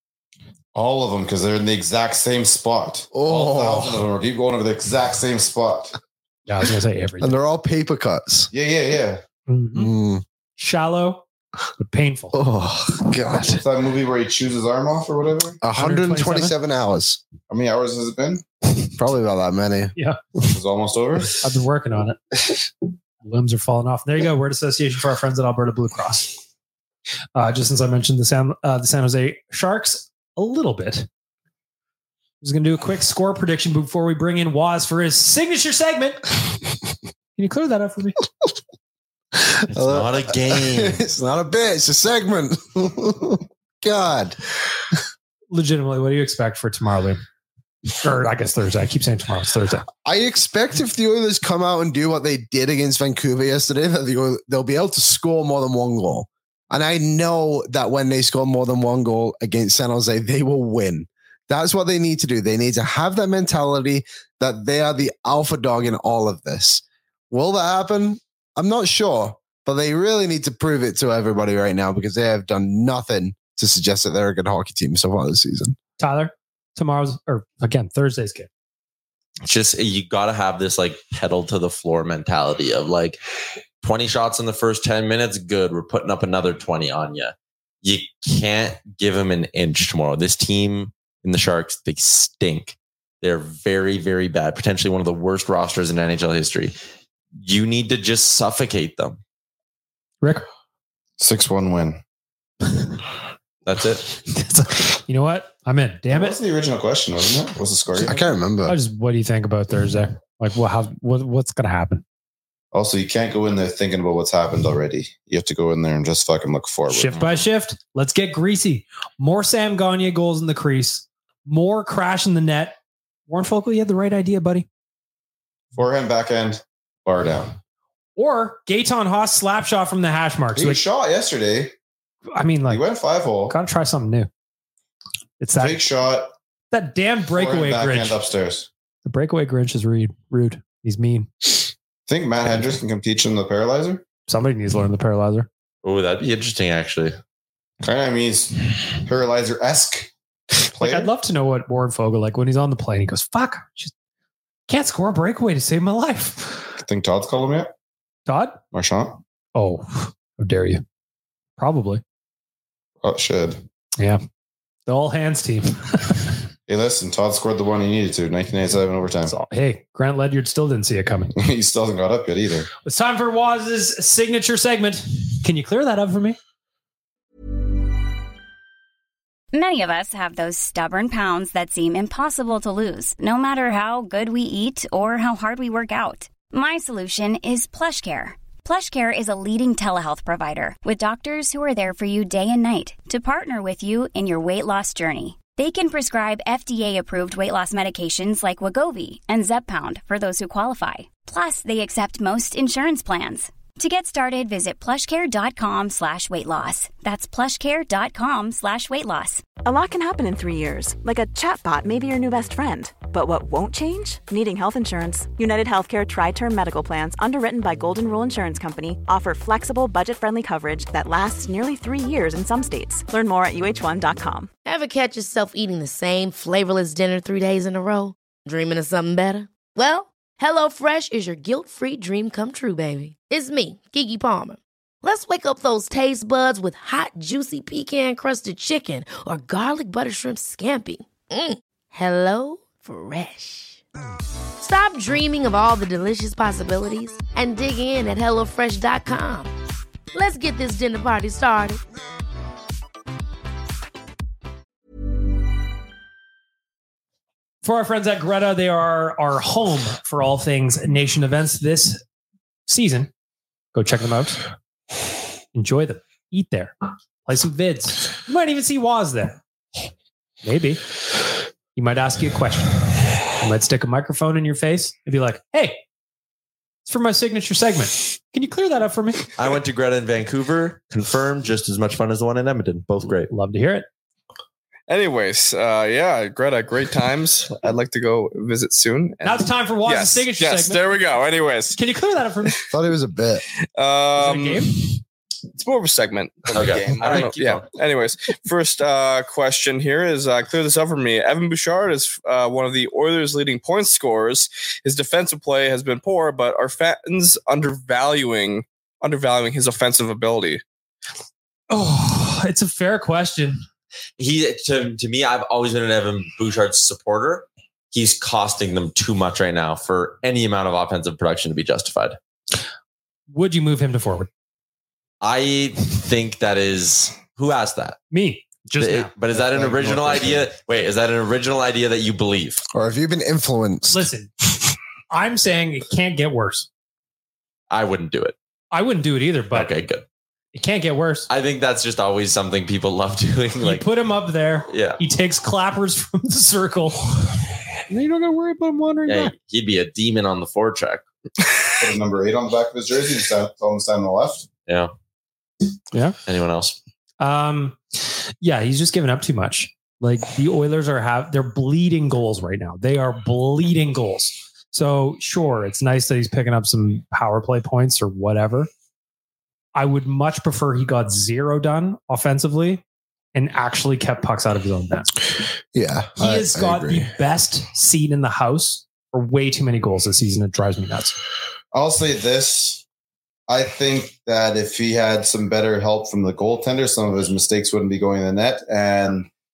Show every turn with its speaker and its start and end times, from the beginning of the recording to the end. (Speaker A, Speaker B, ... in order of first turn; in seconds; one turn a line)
Speaker A: 0.7-6.0
Speaker B: 3.1-4.0
Speaker C: 6.5-7.4
Speaker B: 7.2-8.5
Speaker A: 8.5-9.2
Speaker C: 9.5-9.9
Speaker B: 9.7-10.2
Speaker C: 10.6-11.2
Speaker C: 11.8-12.4
Speaker B: 12.3-13.6
Speaker A: 13.5-15.6
Speaker B: 15.6-17.2
Speaker C: 15.7-16.5
Speaker A: 17.5-18.4
Speaker B: 18.8-19.9
Speaker A: 20.4-21.4
Speaker C: 21.4-22.5
Speaker C: 23.2-26.4
Speaker C: 27.3-31.1
Speaker C: 32.4-36.2
Speaker C: 37.4-38.2
Speaker D: 39.7-41.0
Speaker B: 39.7-44.4
Speaker C: 45.5-47.2
Speaker C: 48.0-49.9
Speaker B: 50.0-75.8
Speaker C: 76.0-78.5
Speaker D: 79.4-83.2
Speaker D: 83.8-96.8
Speaker D: 97.4-99.2
Speaker A: 101.2-102.0
Speaker D: 103.7-104.1
Speaker C: 104.3-106.4
Speaker A: 106.1-108.2
Speaker B: 108.0-108.8
Speaker C: 108.7-112.0
Speaker A: 112.7-117.3
Speaker C: 116.9-122.8
Speaker C: 123.3-124.7
Speaker A: 125.7-127.5
Speaker C: 128.2-130.8
Speaker A: 130.5-131.7
Speaker C: 132.3-132.8
Speaker A: 132.7-133.5
Speaker C: 133.5-134.3
Speaker C: 135.4-135.8
Speaker A: 135.6-136.3
Speaker C: 136.7-138.2
Speaker A: 137.3-138.7
Speaker C: 139.0-141.6
Speaker A: 142.1-144.0
Speaker C: 144.3-145.5
Speaker D: 145.8-147.2
Speaker A: 147.8-150.1
Speaker A: 150.6-151.1
Speaker C: 150.8-153.9
Speaker C: 154.7-156.7
Speaker A: 156.8-157.7
Speaker C: 158.3-158.6
Speaker A: 158.7-159.2
Speaker C: 159.5-160.8
Speaker C: 161.6-162.0
Speaker A: 163.0-163.6
Speaker C: 164.9-166.4
Speaker A: 166.7-169.3
Speaker C: 169.2-171.3
Speaker A: 171.3-172.7
Speaker C: 172.8-176.4
Speaker E: 179.5-209.4
Speaker F: 209.6-224.5
Speaker G: 224.6-243.8
Speaker G: 244.6-249.5
Speaker G: 250.1-251.8
Speaker C: 257.6-262.0
Speaker C: 262.7-263.1
Speaker C: 263.7-264.4
Speaker C: 265.5-269.4
Speaker C: 270.4-270.8
Speaker C: 271.8-275.8
Speaker C: 276.9-279.2
Speaker D: 279.4-283.3
Speaker C: 283.3-283.9
Speaker H: 284.9-291.8
Speaker C: 289.2-290.8
Speaker C: 291.7-292.6
Speaker B: 292.7-293.4
Speaker H: 293.8-294.9
Speaker C: 294.2-294.7
Speaker H: 295.5-310.6
Speaker D: 296.5-297.7
Speaker A: 296.5-297.2
Speaker C: 311.7-313.6
Speaker D: 314.2-322.2
Speaker C: 323.3-324.3
Speaker D: 325.2-328.0
Speaker C: 328.1-330.4
Speaker D: 328.8-332.6
Speaker B: 332.7-334.1
Speaker C: 333.9-334.3
Speaker C: 335.1-336.7
Speaker D: 337.7-338.4
Speaker C: 338.7-339.7
Speaker D: 339.5-340.0
Speaker C: 340.5-341.3
Speaker D: 341.3-343.8
Speaker C: 343.6-349.3
Speaker D: 344.7-345.0
Speaker D: 349.1-351.0
Speaker A: 351.8-354.4
Speaker D: 356.2-356.8
Speaker C: 357.2-368.7
Speaker C: 369.7-372.8
Speaker C: 373.3-375.1
Speaker B: 375.7-377.1
Speaker C: 376.2-381.1
Speaker A: 381.7-382.8
Speaker A: 383.5-389.3